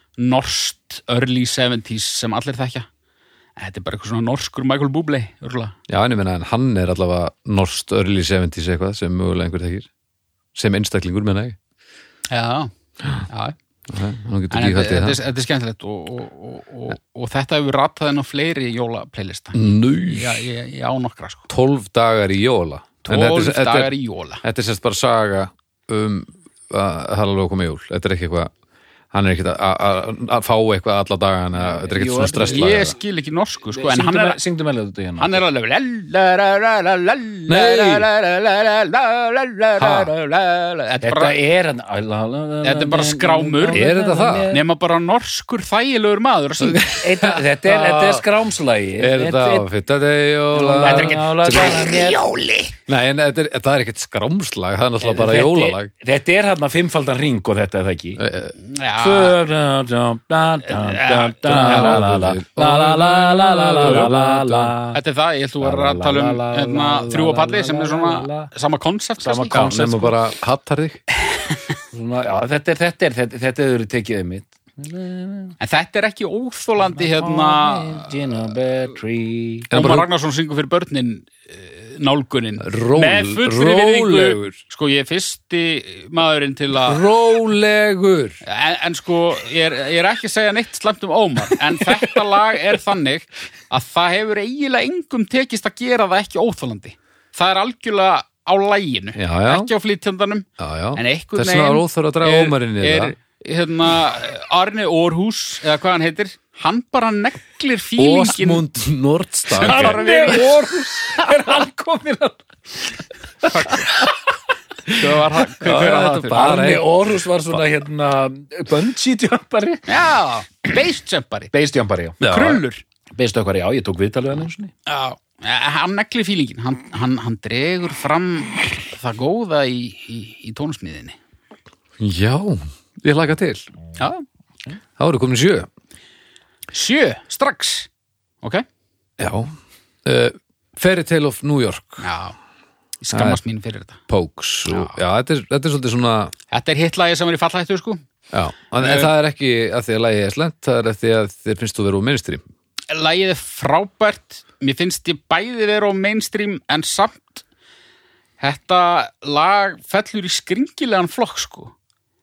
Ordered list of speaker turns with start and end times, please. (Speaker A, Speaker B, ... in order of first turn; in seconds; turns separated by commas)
Speaker A: 0.2-2.9, Speaker A: 3.6-5.7, Speaker B: 5.9-9.9, Speaker B: 10.5-11.6, Speaker A: 12.3-12.7, Speaker A: 13.2-13.6, Speaker B: 13.9-15.2, Speaker A: 14.5-21.5, Speaker B: 19.5-20.4, Speaker B: 21.5-23.9, Speaker A: 23.0-24.4, Speaker B: 24.4-28.5, Speaker B: 29.1-32.9, Speaker C: 31.6-32.9, Speaker A: 32.4-34.4, Speaker C: 33.7-35.4, Speaker A: 35.2-41.4, Speaker B: 37.5-38.1, Speaker B: 39.8-40.1, Speaker C: 41.0-44.6, Speaker A: 42.6-43.9, Speaker B: 43.7-44.5, Speaker A: 44.5-47.1, Speaker B: 46.6-48.2, Speaker C: 46.9-49.7, Speaker B: 49.0-51.9, Speaker C: 50.5-52.4, Speaker A: 50.8-52.7, Speaker B: 52.9-55.9, Speaker C: 55.0-58.2, Speaker B: 58.2-58.5, Speaker A: 58.5-59.4, Speaker C: 59.0-65.0, Speaker A: 60.6-62.1, Speaker B: 61.4-64.7, Speaker A: 64.9-70.1, Speaker C: 65.6-68.5, Speaker C: 69.2-69.8, Speaker B: 69.5-71.0, Speaker A: 71.3-71.7, Speaker C: 71.9-75.6, Speaker A: 75.6-78.3, Speaker C: 76.8-79.7, Speaker B: 79.7-80.1, Speaker A: 79.7-87.0, Speaker B: 82.6-84.6, Speaker B: 86.8-88.4, Speaker A: 88.4-108.6, Speaker B: 99.1-99.7, Speaker B: 100.6-103.1, Speaker B: 108.0-110.0, Speaker A: 109.5-110.6, Speaker C: 109.5-112.9, Speaker A: 113.5-114.0, Speaker C: 113.7-114.1, Speaker A: 114.9-116.5, Speaker B: 115.6-116.9, Speaker C: 115.7-119.9, Speaker A: 119.9-121.5, Speaker C: 121.5-122.2, Speaker A: 122.2-122.8, Speaker B: 122.2-122.6, Speaker C: 123.1-124.7, Speaker A: 124.8-131.2, Speaker B: 132.0-133.7, Speaker A: 134.0-134.2, Speaker B: 135.0-135.7, Speaker A: 136.7-137.9, Speaker B: 139.2-139.5, Speaker B: 140.0-142.1, Speaker A: 142.0-142.3, Speaker A: 143.0-144.0, Speaker B: 143.1-143.4, Speaker B: 144.1-146.3, Speaker A: 144.7-144.9, Speaker A: 146.5-148.0, Speaker B: 148.3-152.4, Speaker A: 148.8-149.1, Speaker A: 152.9-157.4, Speaker A: 158.4-161.7